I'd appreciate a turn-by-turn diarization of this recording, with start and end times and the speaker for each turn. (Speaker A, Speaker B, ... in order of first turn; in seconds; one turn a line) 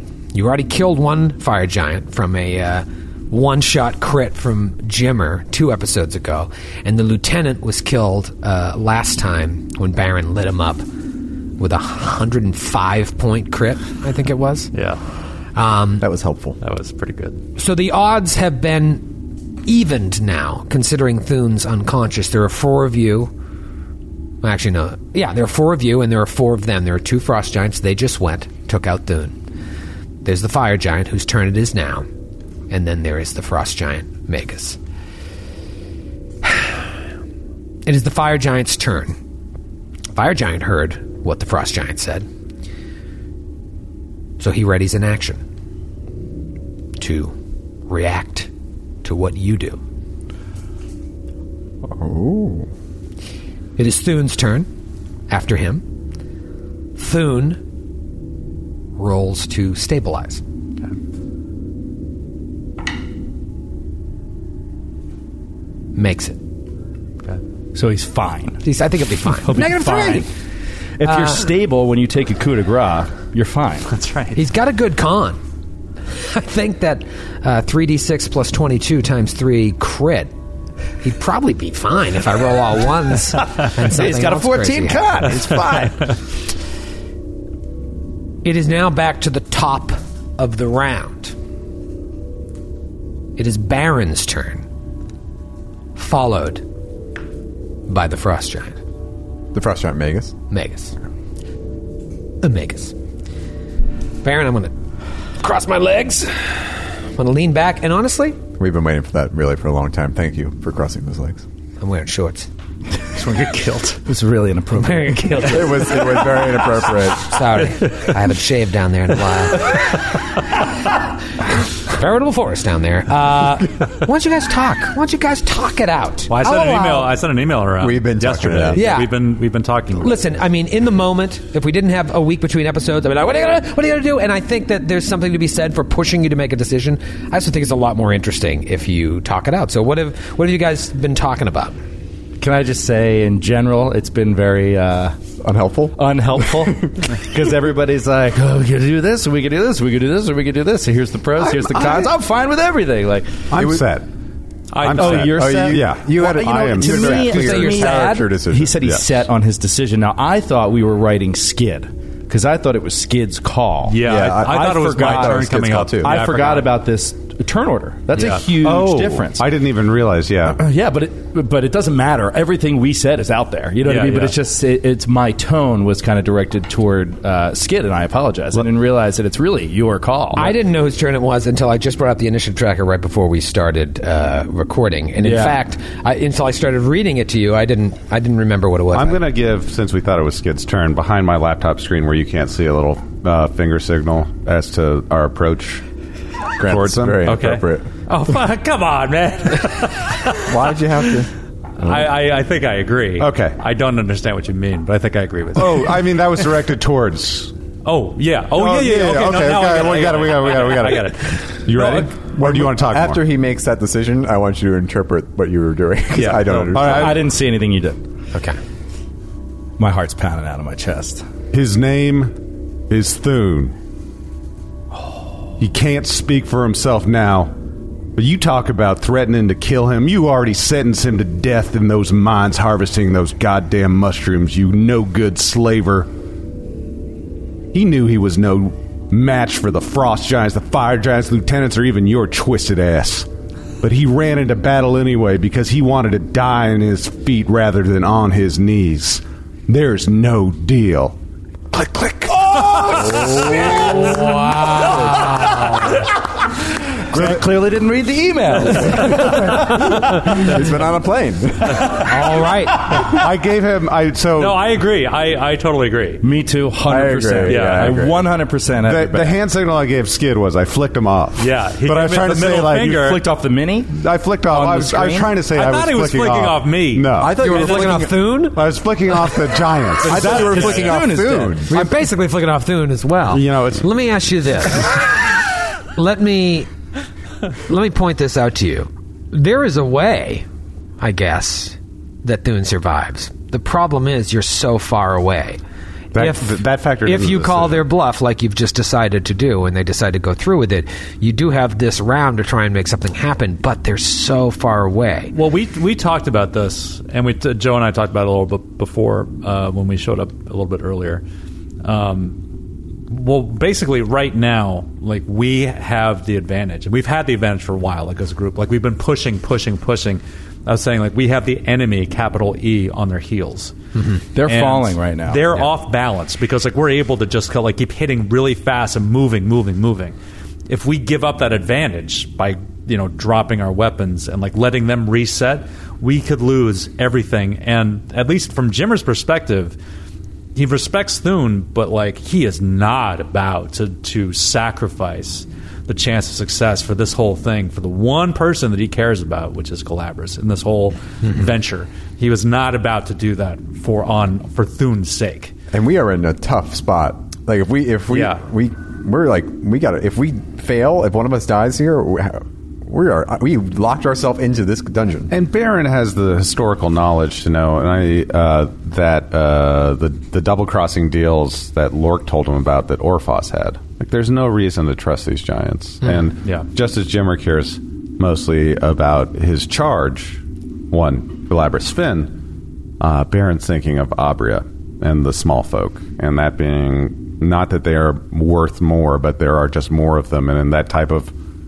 Speaker A: 0.3-10.8
Speaker A: 11.6-14.7
Speaker B: 14.7-15.0
Speaker A: 15.5-16.1
Speaker C: 16.0-16.6
Speaker B: 16.6-17.4
Speaker A: 17.6-19.1
Speaker A: 19.6-23.3
Speaker A: 24.4-29.4
Speaker A: 30.2-32.0
Speaker A: 32.7-34.8
Speaker A: 36.4-36.7
Speaker A: 37.9-39.1
Speaker A: 40.1-42.3
Speaker A: 44.4-45.4
Speaker A: 47.0-47.3
Speaker A: 47.9-48.5
Speaker A: 49.0-49.8
Speaker C: 51.8-52.7
Speaker A: 53.8-54.7
Speaker A: 55.3-55.8
Speaker A: 57.0-57.6
Speaker A: 59.0-60.4
Speaker A: 66.0-66.4
Speaker D: 67.7-68.6
Speaker A: 68.6-70.3
Speaker D: 69.4-70.3
Speaker D: 71.0-73.9
Speaker A: 71.0-71.4
Speaker B: 73.9-74.4
Speaker A: 74.3-75.4
Speaker A: 76.3-80.3
Speaker A: 81.0-85.3
Speaker D: 83.8-86.1
Speaker A: 88.4-91.3
Speaker A: 93.4-94.7
Speaker A: 96.0-96.6
Speaker A: 97.9-98.8
Speaker C: 99.5-100.3
Speaker A: 100.5-100.9
Speaker A: 102.4-102.9
Speaker A: 104.2-104.7
Speaker A: 105.4-108.4
Speaker C: 108.6-111.4
Speaker A: 111.8-112.5
Speaker B: 113.1-114.0
Speaker D: 114.0-115.8
Speaker A: 114.8-116.4
Speaker C: 115.4-117.3
Speaker A: 117.2-119.9
Speaker A: 121.8-127.1
Speaker B: 126.3-130.2
Speaker C: 127.8-128.9
Speaker A: 128.7-129.1
Speaker A: 130.0-141.7
Speaker D: 142.4-145.2
Speaker C: 145.4-146.9
Speaker D: 146.0-153.5
Speaker E: 151.7-152.0
Speaker E: 153.5-154.1
Speaker C: 153.6-153.8
Speaker B: 154.7-155.6
Speaker E: 154.8-158.1
Speaker D: 154.9-169.4
Speaker C: 155.1-159.0
Speaker B: 163.9-166.7
Speaker C: 164.0-166.2
Speaker B: 168.1-168.4
Speaker E: 168.5-170.6
Speaker D: 170.5-180.5
Speaker B: 173.8-174.3
Speaker A: 180.3-189.2
Speaker D: 185.2-185.6
Speaker E: 188.9-195.8
Speaker C: 196.6-197.9
Speaker E: 196.6-197.5
Speaker B: 197.2-200.5
Speaker C: 200.4-201.3
Speaker B: 201.8-206.0
Speaker E: 203.2-203.6
Speaker E: 205.5-207.5
Speaker B: 207.8-212.1
Speaker E: 208.6-213.2
Speaker C: 211.8-217.1
Speaker B: 216.1-216.7
Speaker E: 216.7-217.3
Speaker D: 216.7-218.0
Speaker A: 218.3-218.6
Speaker D: 219.8-221.2
Speaker E: 221.5-222.3
Speaker E: 222.9-223.7
Speaker E: 225.6-227.5
Speaker E: 228.2-236.1
Speaker E: 237.7-243.3
Speaker E: 243.8-251.2
Speaker D: 251.7-256.1
Speaker C: 253.0-253.7
Speaker A: 253.6-255.9
Speaker D: 257.1-259.9
Speaker E: 257.1-257.4
Speaker B: 258.8-259.7
Speaker C: 259.0-262.0
Speaker A: 262.0-262.9
Speaker E: 263.0-264.6
Speaker B: 264.4-266.2
Speaker D: 266.2-269.4
Speaker C: 266.9-268.2
Speaker B: 267.4-268.0
Speaker E: 268.7-273.0
Speaker B: 271.4-273.2
Speaker D: 272.9-273.9
Speaker E: 273.9-277.8
Speaker D: 274.5-275.3
Speaker B: 275.5-277.3
Speaker C: 277.2-278.2
Speaker A: 277.4-278.6
Speaker E: 278.5-280.6
Speaker C: 280.0-281.7
Speaker B: 280.1-281.0
Speaker D: 280.1-281.7
Speaker A: 281.7-285.1
Speaker E: 283.3-283.9
Speaker A: 285.9-286.7
Speaker A: 287.7-290.4
Speaker A: 291.0-295.6
Speaker E: 296.1-297.8
Speaker A: 296.1-305.3
Speaker B: 305.3-311.2
Speaker B: 311.8-312.4
Speaker B: 313.1-323.8
Speaker D: 324.3-325.7
Speaker B: 324.4-330.1
Speaker B: 330.7-339.8
Speaker B: 340.5-355.5
Speaker C: 355.7-365.3
Speaker B: 358.1-358.4
Speaker E: 365.3-382.3
Speaker E: 383.0-391.3